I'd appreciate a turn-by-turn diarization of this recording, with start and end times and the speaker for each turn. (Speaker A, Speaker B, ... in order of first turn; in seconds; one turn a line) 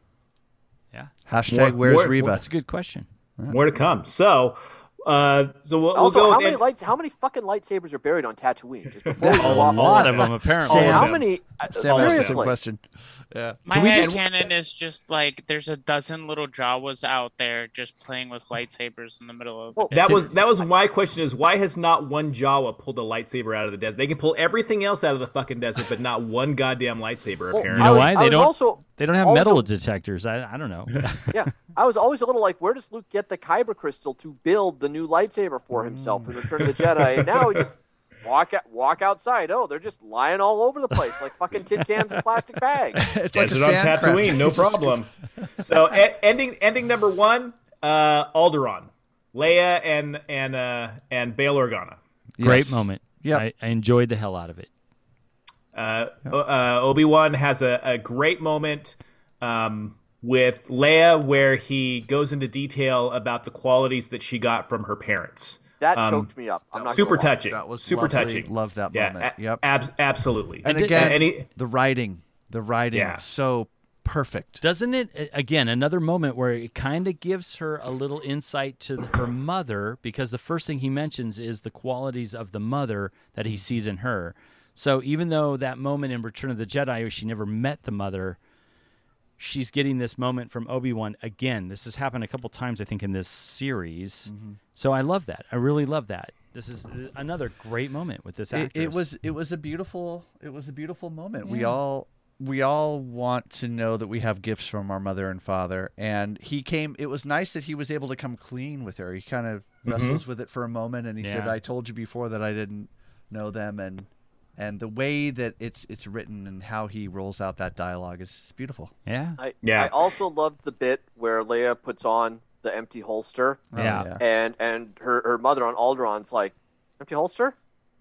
Speaker A: 0.9-3.1
Speaker B: 1.3-2.4
Speaker C: 1.7-2.2
Speaker C: 3.5-6.6
Speaker D: 6.0-12.5
Speaker C: 9.1-11.2
Speaker A: 9.4-11.1
Speaker B: 10.6-11.2
Speaker B: 11.8-14.2
Speaker C: 11.8-12.4
Speaker E: 13.7-20.7
Speaker C: 13.7-14.2
Speaker D: 19.8-20.3
Speaker C: 19.9-28.1
Speaker D: 27.5-29.7
Speaker A: 27.7-31.4
Speaker D: 31.3-43.0
Speaker B: 35.8-36.4
Speaker B: 43.0-45.1
Speaker C: 43.3-52.0
Speaker B: 52.4-53.4
Speaker A: 52.4-54.7
Speaker C: 55.7-66.3
Speaker D: 65.8-67.3
Speaker B: 66.7-69.6
Speaker C: 66.9-71.5
Speaker B: 70.6-74.6
Speaker A: 70.7-71.1
Speaker C: 72.9-73.2
Speaker A: 74.6-88.4
Speaker A: 89.4-99.0
Speaker B: 94.3-94.6
Speaker B: 98.5-118.9
Speaker A: 101.5-101.8
Speaker C: 109.9-110.2
Speaker A: 111.2-111.6
Speaker A: 119.1-119.4
Speaker D: 119.4-123.7
Speaker C: 119.6-120.2
Speaker B: 123.7-124.2
Speaker A: 123.8-124.1
Speaker D: 124.2-127.5